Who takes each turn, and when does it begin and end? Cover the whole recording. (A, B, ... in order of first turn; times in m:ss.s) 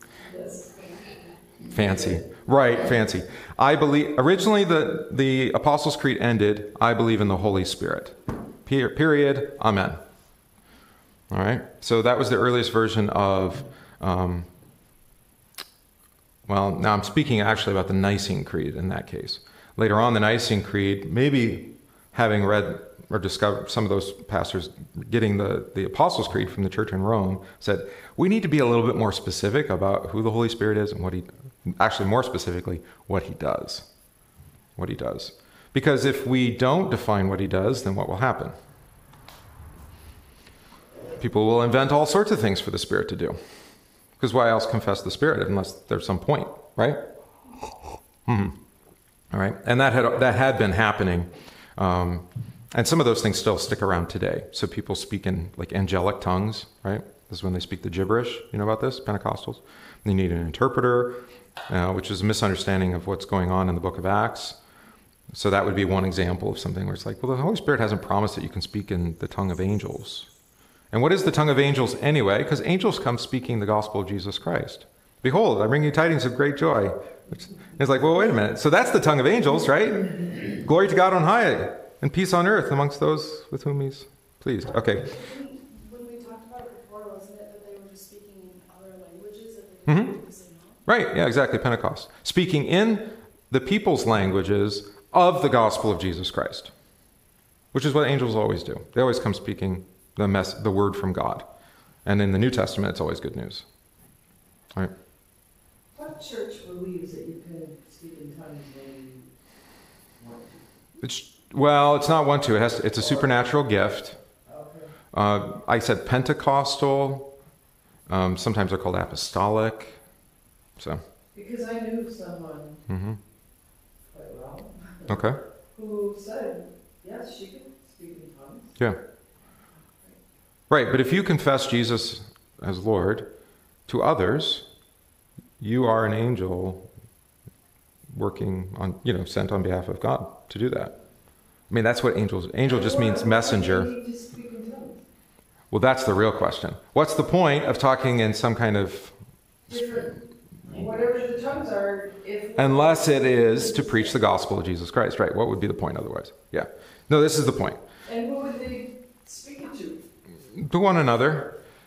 0:00.2-0:00.9 A
0:00.3-0:01.2 B
0:01.7-0:10.0 C
0:01.7-0:02.2 A
0:11.3-0:14.5 C
0:16.5-0:33.9 C
0:34.8-0:38.6 C
0:41.2-0:43.4 C
0:44.2-0:47.0 C
0:48.2-0:48.6 C
0:49.3-1:04.6 C
1:05.3-1:10.3 C
1:10.9-1:25.1 C
1:25.0-1:30.8 B
1:29.8-1:30.2 C
1:30.8-1:36.7 C
1:37.7-1:41.5 C
1:42.0-1:43.6 C
1:45.9-1:49.3 A
1:50.2-1:50.6 A
1:51.0-1:54.2 C
1:54.4-1:54.9 A
1:55.1-1:57.3 C
1:58.1-2:00.0 C
2:01.3-2:02.8 A
2:02.9-2:03.2 C
2:04.1-2:08.8 A
2:05.1-2:05.4 C
2:10.7-2:13.3 C
2:13.9-2:14.7 C
2:15.6-2:16.9 C
2:18.1-2:21.0 C
2:21.7-2:23.9 C
2:22.6-2:25.0 A
2:25.7-2:29.2 C
2:29.7-2:34.2 A
2:32.6-2:37.8 C
2:38.0-2:40.0 A
2:40.5-2:41.6 C